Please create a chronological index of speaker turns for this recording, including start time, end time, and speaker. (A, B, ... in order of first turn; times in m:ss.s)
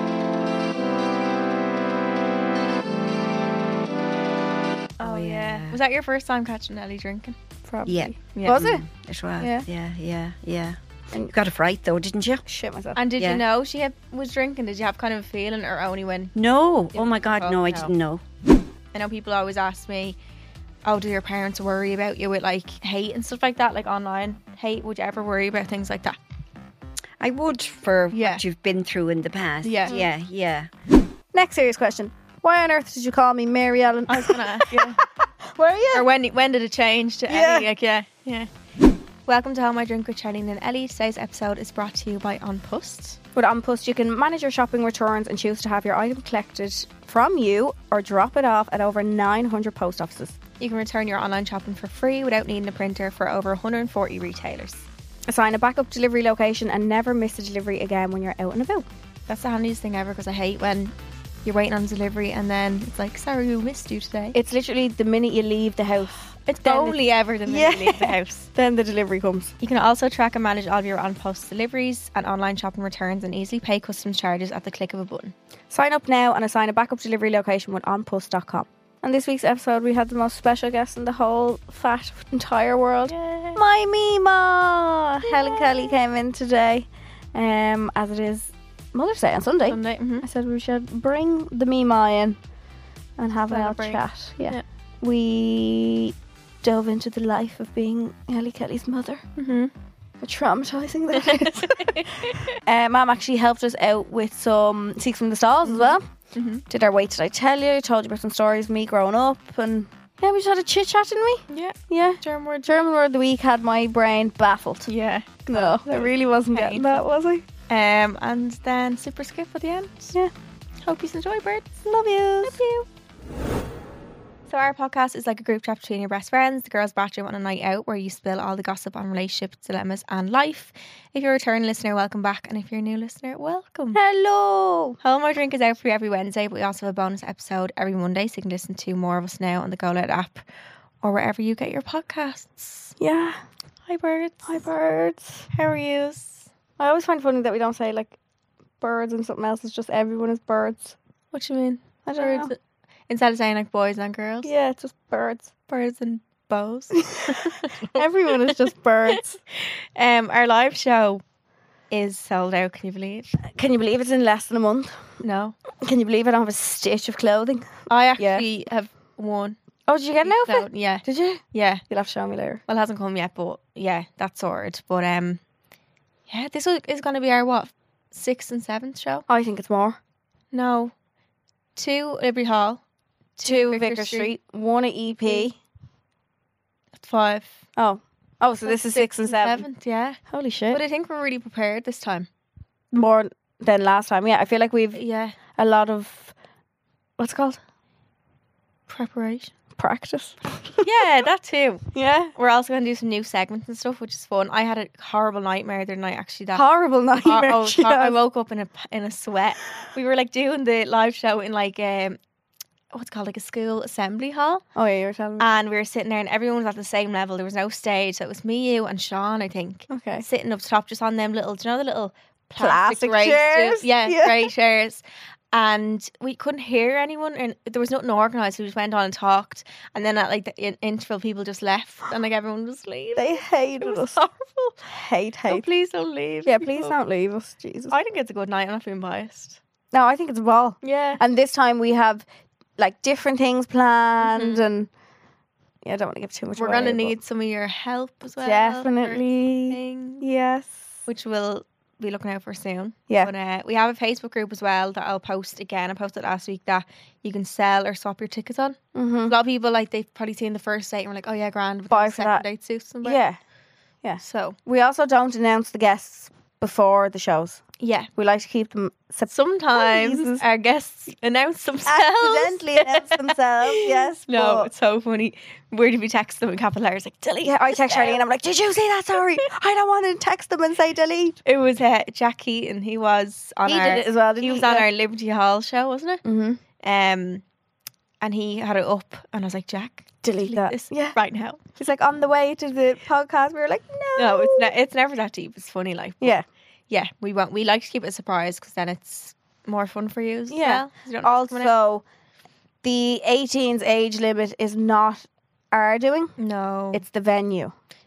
0:05.0-0:05.8 A
0:05.0-0:07.4 B
0:07.7-0:08.8 C
0:07.9-0:12.4 A
0:08.4-0:08.6 B
0:09.4-0:09.6 C
0:12.5-0:13.0 C
0:13.0-0:16.3 B
0:13.2-0:13.4 A
0:16.4-0:18.2 A
0:16.9-0:17.9 B
0:18.9-0:20.2 B
0:20.8-0:26.2 B
0:27.2-0:30.7 A
0:28.1-0:28.4 B
0:29.6-0:30.0 B
0:31.3-0:36.1 C
0:34.1-0:35.0 B
0:35.9-0:38.5 B
0:37.3-0:37.7 C
0:39.3-0:43.2 B
0:43.4-0:50.4 C
0:50.6-0:54.8 B
0:55.3-0:58.9 C
0:59.3-1:04.4 B
1:04.3-1:09.5 C
1:06.5-1:08.5 B
1:09.6-1:15.4 B
1:15.7-1:32.4 C
1:23.1-1:23.6 B
1:25.2-1:26.0 B
1:29.6-1:30.3 B
1:33.2-1:39.2 C
1:33.5-1:34.6 B
1:39.4-1:39.7 B
1:40.2-1:46.0 C
1:41.2-1:42.6 B
1:45.6-1:46.6 B
1:46.7-1:54.9 C
1:51.5-1:52.8 B
1:54.9-1:57.0 B
1:55.5-1:57.4 C
1:57.7-2:00.2 B
2:00.8-2:01.8 B
2:01.9-2:02.6 C
2:02.4-2:02.9 B
2:04.5-2:14.0 B
2:13.9-2:15.0 C
2:15.0-2:20.5 B
2:21.0-2:22.9 B
2:23.0-2:23.4 C
2:23.9-2:24.7 B
2:24.5-2:25.5 C
2:25.5-2:26.5 B
2:26.8-2:28.1 C
2:28.8-2:31.0 C
2:31.3-2:32.6 B
2:32.1-2:32.5 C
2:33.1-2:34.5 B
2:34.4-2:35.5 C
2:35.7-2:41.2 B
2:37.0-2:39.4 C
2:41.9-2:43.4 B
2:43.4-2:45.0 C
2:45.2-2:45.6 B
2:45.8-2:48.4 C
2:47.9-2:49.6 B
2:49.9-2:52.6 C
2:50.2-2:51.8 B
2:52.7-2:55.4 B
2:56.3-2:59.2 B
2:59.3-3:00.0 C
3:00.5-3:00.9 B
3:01.8-3:02.8 B
3:03.4-3:04.3 B
3:03.4-3:05.6 C
3:07.0-3:07.6 B
3:07.8-3:09.6 C
3:08.6-3:10.2 B
3:10.3-3:10.8 C
3:10.7-3:12.3 B
3:12.9-3:15.0 C
3:14.9-3:15.4 B
3:15.5-3:16.3 C
3:17.2-3:17.6 C
3:18.9-3:19.5 B
3:19.8-3:20.9 C
3:20.8-3:21.8 B
3:21.9-3:22.3 C
3:22.4-3:26.6 B
3:26.5-3:28.2 C
3:27.2-3:32.2 B
3:32.9-3:34.6 B
3:34.8-3:35.5 C
3:35.4-3:54.8 B
3:39.9-3:40.2 C
3:42.6-3:44.5 C
3:53.2-3:54.2 C
3:54.9-3:55.6 C
3:55.5-3:57.0 B
3:56.5-3:57.9 C
3:57.9-3:59.6 B
3:59.9-4:02.2 C
4:00.8-4:01.2 B
4:02.8-4:04.9 C
4:04.2-4:04.6 B
4:05.8-4:07.2 C
4:06.6-4:10.2 B
4:08.4-4:10.8 C
4:11.1-4:23.2 B
4:19.0-4:19.4 C
4:21.9-4:22.4 C
4:23.0-4:23.4 C
4:24.0-4:27.6 C
4:24.2-4:24.6 B
4:27.8-4:28.1 B
4:28.2-4:30.4 C
4:29.3-4:38.2 B
4:31.9-4:34.7 C
4:37.4-4:41.4 C
4:41.4-4:46.2 B
4:43.7-4:44.9 C
4:46.2-4:46.6 C
4:46.8-4:47.4 B
4:48.2-4:51.6 B
4:50.2-4:51.2 C
4:51.7-4:54.7 C
4:54.2-5:01.7 B
5:00.5-5:02.0 C
5:02.8-5:06.4 C
5:06.4-5:07.0 B
5:06.9-5:07.7 C